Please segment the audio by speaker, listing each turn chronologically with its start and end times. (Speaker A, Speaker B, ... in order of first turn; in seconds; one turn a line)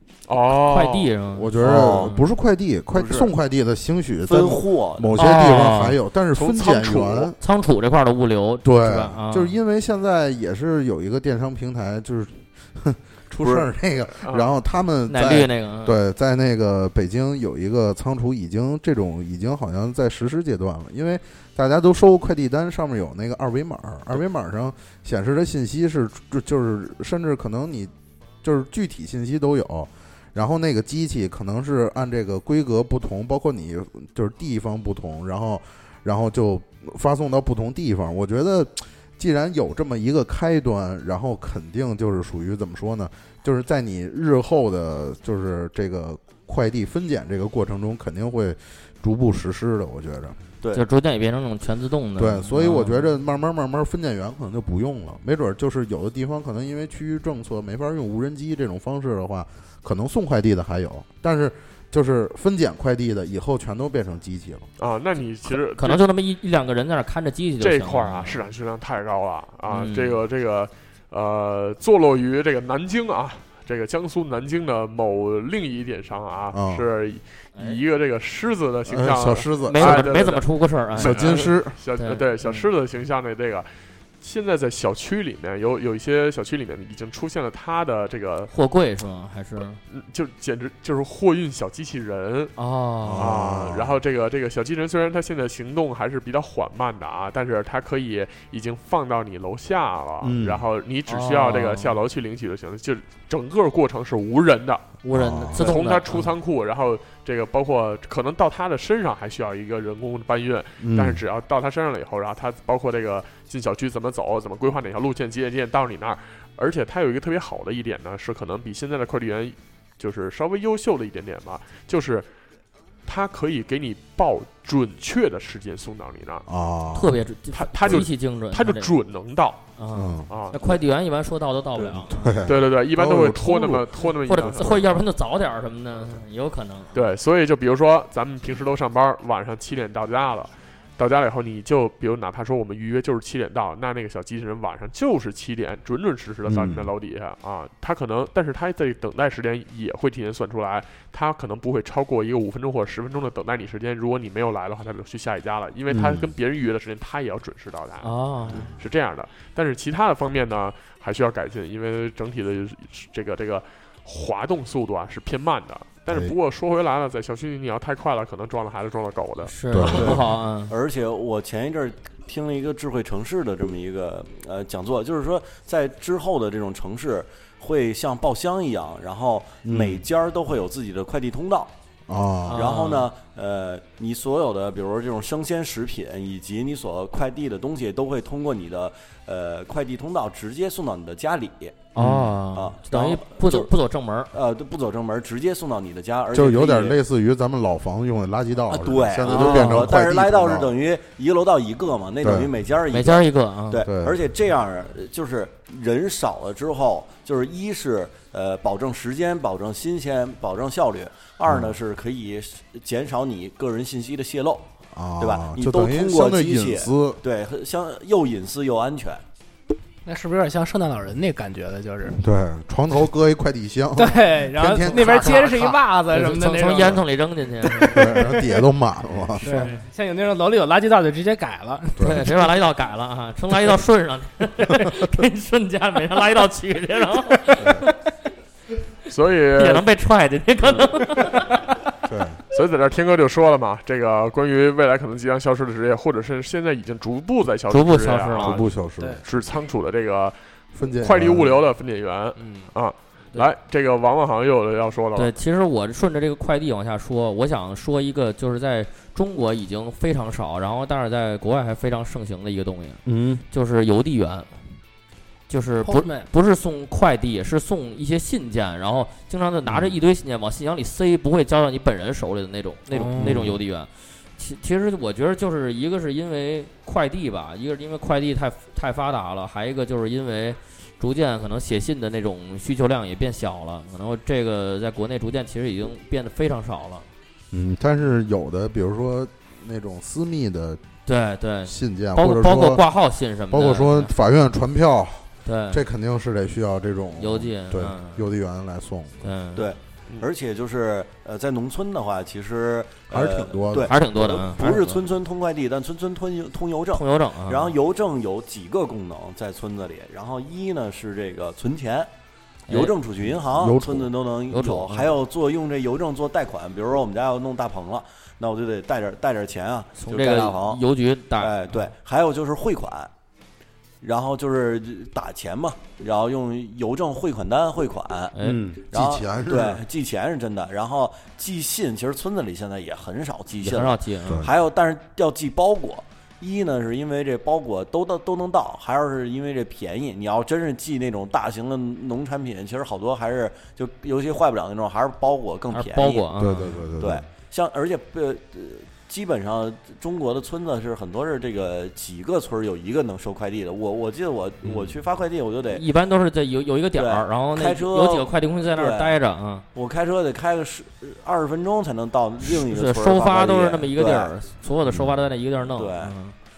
Speaker A: 0.3-1.1
Speaker B: 0.6-2.3
Speaker C: 1.3-7.3
Speaker D: 1.6-2.2
Speaker D: 2.9-3.3
Speaker D: 4.3-5.3
Speaker B: 5.2-6.0
Speaker A: 6.3-7.3
Speaker B: 7.4-9.6
Speaker C: 8.6-27.9
Speaker D: 13.4-13.7
Speaker A: 14.2-14.5
Speaker B: 15.1-16.0
Speaker C: 28.4-50.4
Speaker B: 50.7-53.1
Speaker C: 52.2-64.7
Speaker A: 64.8-66.0
Speaker B: 65.5-68.5
Speaker A: 67.6-83.7
Speaker B: 69.7-70.2
Speaker C: 76.5-76.9
Speaker C: 78.8-80.2
Speaker B: 79.7-82.7
Speaker C: 81.0-81.7
Speaker A: 84.2-88.5
Speaker B: 88.5-89.8
Speaker A: 89.9-92.5
Speaker B: 92.6-93.4
Speaker C: 93.0-94.0
Speaker A: 93.2-104.9
Speaker C: 100.2-100.6
Speaker B: 101.1-101.9
Speaker B: 105.0-106.3
Speaker C: 105.1-105.8
Speaker A: 105.6-122.3
Speaker C: 110.8-111.2
Speaker A: 123.1-126.5
Speaker C: 126.5-127.2
Speaker B: 126.9-128.9
Speaker A: 127.5-129.6
Speaker B: 129.8-132.4
Speaker C: 129.9-130.3
Speaker A: 130.3-130.6
Speaker C: 131.8-134.9
Speaker A: 132.4-134.8
Speaker B: 134.2-137.1
Speaker A: 136.9-169.5
Speaker C: 146.4-146.9
Speaker C: 155.9-156.3
Speaker B: 158.0-158.7
Speaker C: 166.1-166.3
Speaker B: 169.4-170.7
Speaker C: 169.7-170.2
Speaker D: 169.9-181.7
Speaker C: 179.6-180.0
Speaker C: 182.1-182.8
Speaker B: 182.5-183.1
Speaker D: 182.5-191.9
Speaker B: 191.9-194.3
Speaker C: 191.9-192.4
Speaker D: 192.5-193.7
Speaker D: 194.3-197.0
Speaker C: 196.3-200.7
Speaker D: 198.7-219.2
Speaker B: 199.3-199.9
Speaker C: 202.2-202.5
Speaker B: 202.9-203.8
Speaker C: 203.8-204.2
Speaker C: 211.5-211.8
Speaker C: 214.9-217.2
Speaker E: 220.1-222.2
Speaker C: 222.1-225.6
Speaker E: 223.9-227.0
Speaker B: 225.0-225.5
Speaker B: 226.1-228.1
Speaker E: 227.6-228.6
Speaker C: 227.9-229.7
Speaker E: 229.4-232.4
Speaker B: 229.4-229.7
Speaker B: 232.0-237.9
Speaker A: 239.1-239.8
Speaker B: 239.6-241.6
Speaker C: 242.0-242.4
Speaker A: 242.5-248.7
Speaker B: 247.7-248.7
Speaker C: 248.3-249.2
Speaker A: 249.2-255.3
Speaker C: 250.8-251.6
Speaker E: 252.4-252.7
Speaker B: 255.2-264.6
Speaker C: 263.0-263.4
Speaker B: 265.5-287.1
Speaker E: 265.8-266.3
Speaker C: 269.6-269.9
Speaker E: 272.9-273.4
Speaker C: 273.1-273.6
Speaker C: 287.5-290.8
Speaker B: 291.1-294.1
Speaker C: 291.6-292.9
Speaker C: 293.5-299.3
Speaker B: 295.4-295.8
Speaker B: 297.2-298.3
Speaker B: 299.2-299.7
Speaker D: 299.5-312.1
Speaker C: 303.1-304.4
Speaker B: 303.8-305.0
Speaker B: 306.9-307.8
Speaker B: 312.7-312.9
Speaker D: 312.7-320.8
Speaker C: 313.2-314.1
Speaker B: 314.5-315.1
Speaker B: 319.9-321.9
Speaker D: 321.4-323.1
Speaker D: 324.0-346.3
Speaker B: 328.3-328.6
Speaker C: 328.4-329.8
Speaker B: 333.6-334.4
Speaker B: 345.7-346.8
Speaker C: 346.4-347.2
Speaker D: 347.0-355.9
Speaker C: 354.6-354.9
Speaker B: 355.7-359.6
Speaker D: 356.9-359.2
Speaker D: 359.7-364.4
Speaker B: 362.4-366.4
Speaker C: 364.9-365.2
Speaker D: 365.7-366.2